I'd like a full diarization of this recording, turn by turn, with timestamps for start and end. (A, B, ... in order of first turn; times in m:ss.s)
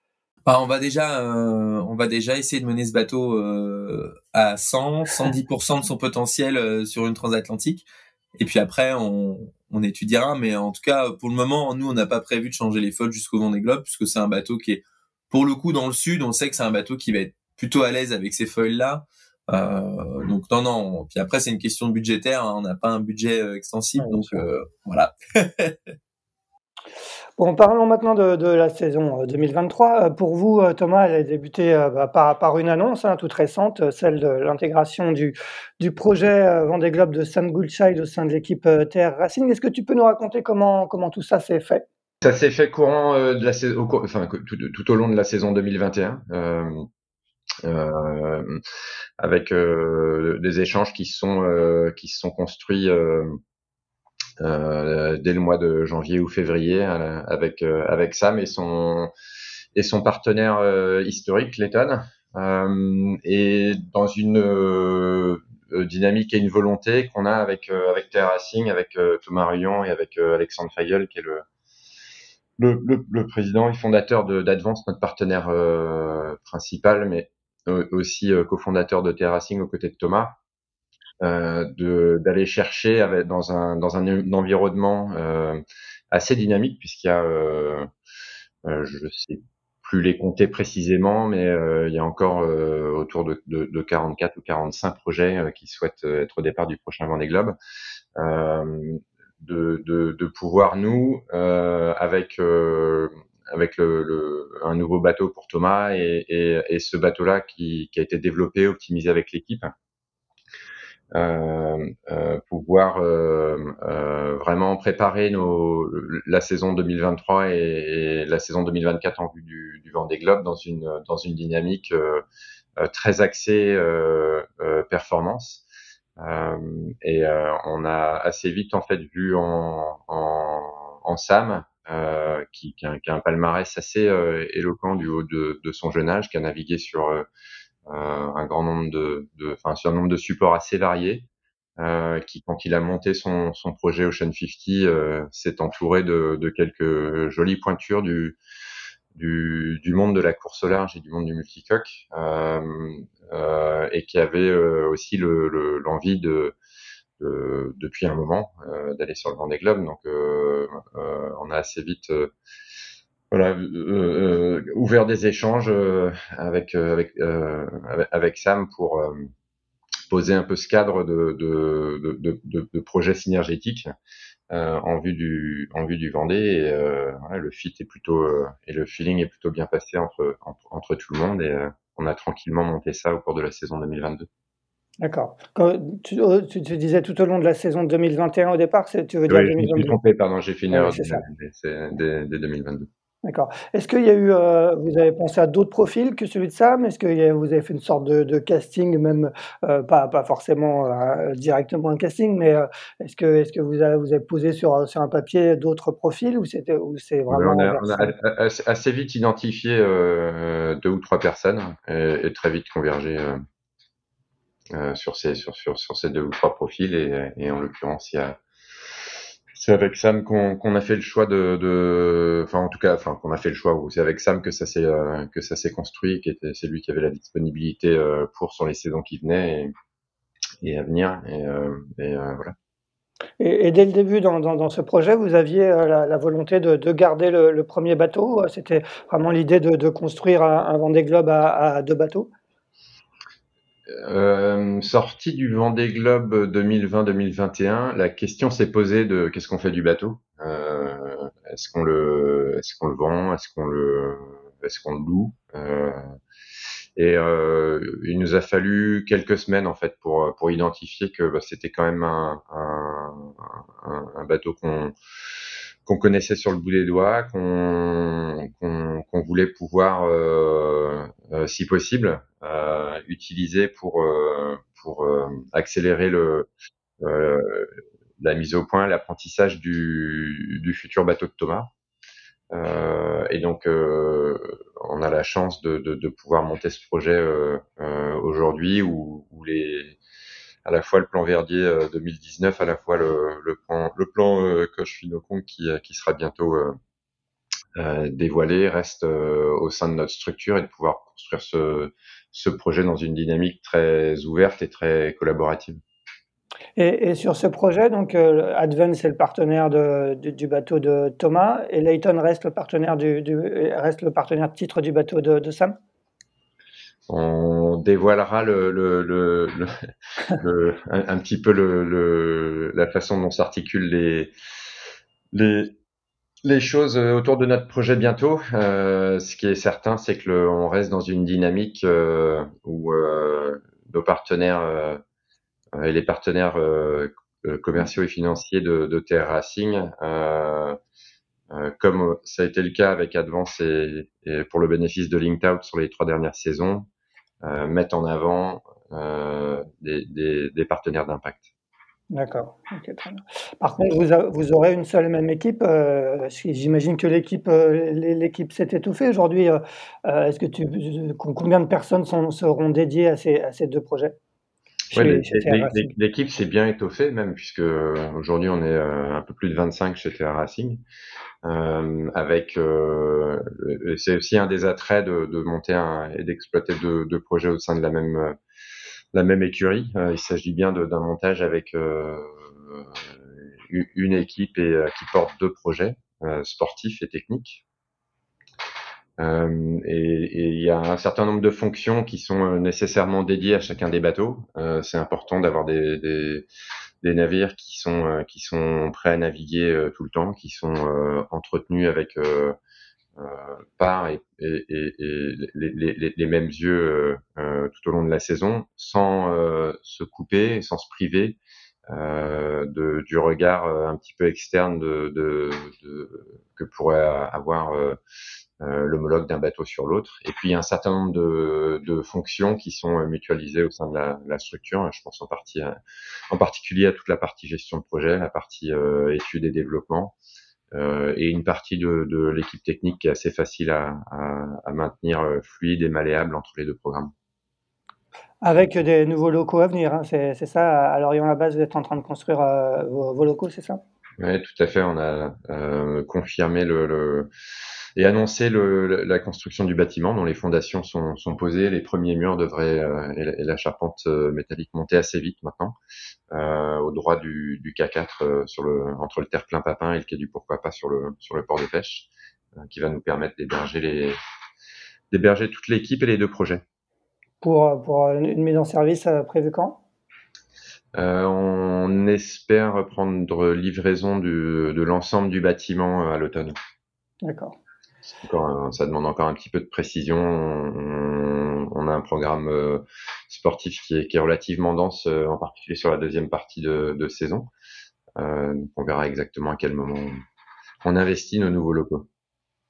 0:00.4-0:07.8 A
0:08.4-0:25.8 A
0:24.0-0:24.4 B
0:27.4-0:41.8 B
0:42.2-0:46.8 C
0:47.6-0:48.6 C
0:49.2-0:53.4 C
0:54.4-0:59.1 C
0:59.7-1:11.4 C
1:12.6-1:20.4 C
1:21.2-1:27.9 C
1:28.6-1:37.6 C
1:38.2-1:49.7 C
1:51.1-2:02.2 C
2:02.8-2:05.6 C
2:06.2-2:17.3 C
2:17.9-2:28.4 C
2:29.1-2:36.6 C
2:37.2-2:42.3 C
2:43.3-2:49.3 C
2:50.1-2:53.9 C
2:54.5-3:04.3 C
3:05.0-3:10.0 B
3:09.3-3:12.9 C
3:10.7-3:11.2 B
3:13.2-3:28.1 B
3:27.3-3:33.4 C
3:34.7-3:38.4 C
3:39.5-3:49.7 C
3:50.6-3:52.5 C
3:53.4-4:02.3 B
4:03.9-4:16.2 C
4:17.0-4:24.9 C
4:25.8-4:36.5 C
4:37.0-4:41.7 C
4:42.5-4:50.0 C
4:50.6-4:56.8 C
4:57.8-5:05.8 C
5:06.8-5:15.8 B
5:17.1-5:19.7 C
5:20.4-5:24.3 C
5:25.3-5:25.8 C
5:26.4-5:35.0 C
5:35.8-5:40.8 C
5:41.5-5:46.9 C
5:47.4-5:51.5 C
5:52.1-6:04.2 B
6:04.9-6:05.9 B
6:04.9-6:10.8 C
6:11.4-6:18.4 C
6:19.1-6:27.6 C
6:29.2-6:36.5 C
6:37.0-6:42.6 C
6:43.2-6:51.4 C
6:51.9-6:58.0 C
6:58.6-7:05.8 C
7:06.3-7:10.2 C
7:10.7-7:17.1 C
7:18.4-7:23.8 B
7:24.2-7:27.3 C
7:28.0-7:35.8 C
7:36.3-7:44.1 C
7:45.1-7:46.6 C
7:47.4-7:49.8 B
7:51.0-7:56.5 C
7:57.2-7:57.6 B
7:58.2-8:07.5 C
8:08.2-8:10.2 C
8:10.8-8:12.1 C